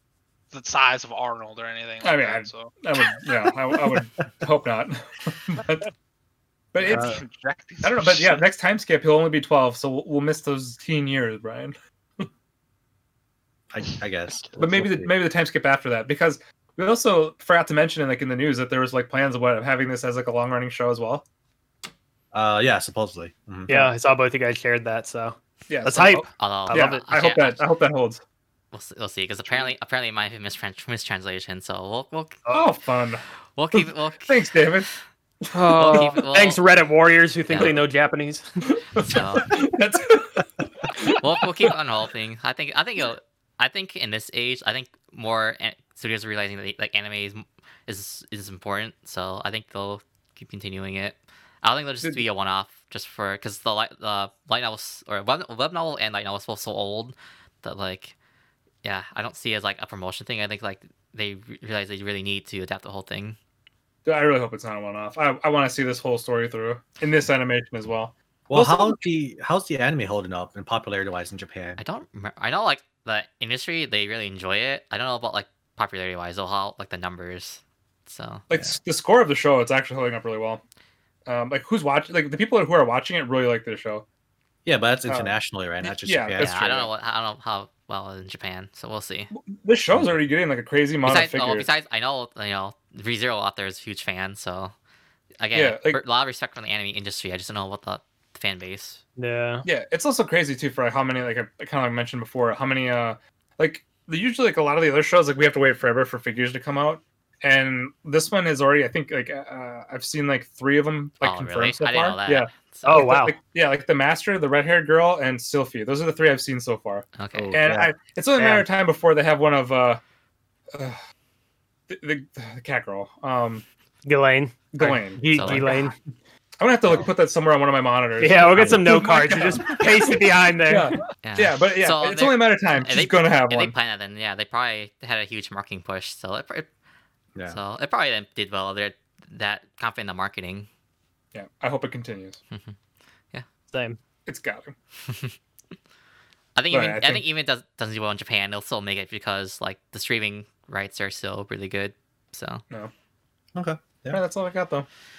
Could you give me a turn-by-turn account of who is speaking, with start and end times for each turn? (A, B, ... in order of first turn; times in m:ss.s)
0:00.5-0:02.7 A
0:02.0-0:05.9 B
0:06.7-0:07.2 B
0:06.8-0:08.4 A
0:06.9-0:07.2 C
0:07.8-0:12.3 B
0:13.7-0:15.2 C
0:14.6-0:21.2 B
0:22.3-0:23.9 C
0:23.7-0:27.0 D
0:25.7-0:28.2 B
0:26.4-0:27.6 E
0:28.7-0:32.6 E
0:29.5-0:29.7 B
0:32.5-0:34.9 B
0:33.5-0:34.7 E
0:35.5-0:38.5 D
0:35.8-0:36.6 E
0:37.5-0:37.8 E
0:39.0-0:41.7 B
0:39.0-0:39.5 E
0:41.2-0:58.2 E
0:58.8-1:03.4 E
1:04.0-1:09.0 B
1:08.5-1:11.8 C
1:11.8-1:18.6 E
1:18.5-1:20.6 B
1:21.2-1:24.0 B
1:24.6-1:26.6 C
1:25.0-1:26.9 B
1:26.4-1:29.3 E
1:29.3-1:31.7 B
1:31.0-1:34.7 E
1:35.4-1:39.0 E
1:35.5-1:36.0 B
1:39.2-1:39.7 D
1:39.6-2:00.0 B
1:51.2-1:53.1 E
1:52.8-1:53.4 D
1:57.1-1:57.5 E
1:57.3-1:57.9 C
1:58.4-1:58.6 D
2:00.7-2:01.0 B
2:01.9-2:03.6 B
2:04.0-2:06.0 D
2:04.7-2:05.8 B
2:05.3-2:05.7 E
2:06.6-2:10.1 B
2:08.2-2:11.0 D
2:08.6-2:08.9 C
2:10.7-2:13.7 B
2:11.2-2:16.7 E
2:17.5-2:20.7 E
2:21.3-2:22.4 B
2:22.5-2:22.8 E
2:23.7-2:24.0 D
2:24.2-2:24.7 B
2:25.1-2:25.3 E
2:26.6-2:32.6 E
2:26.7-2:27.2 B
2:33.5-2:34.2 C
2:34.1-2:34.9 B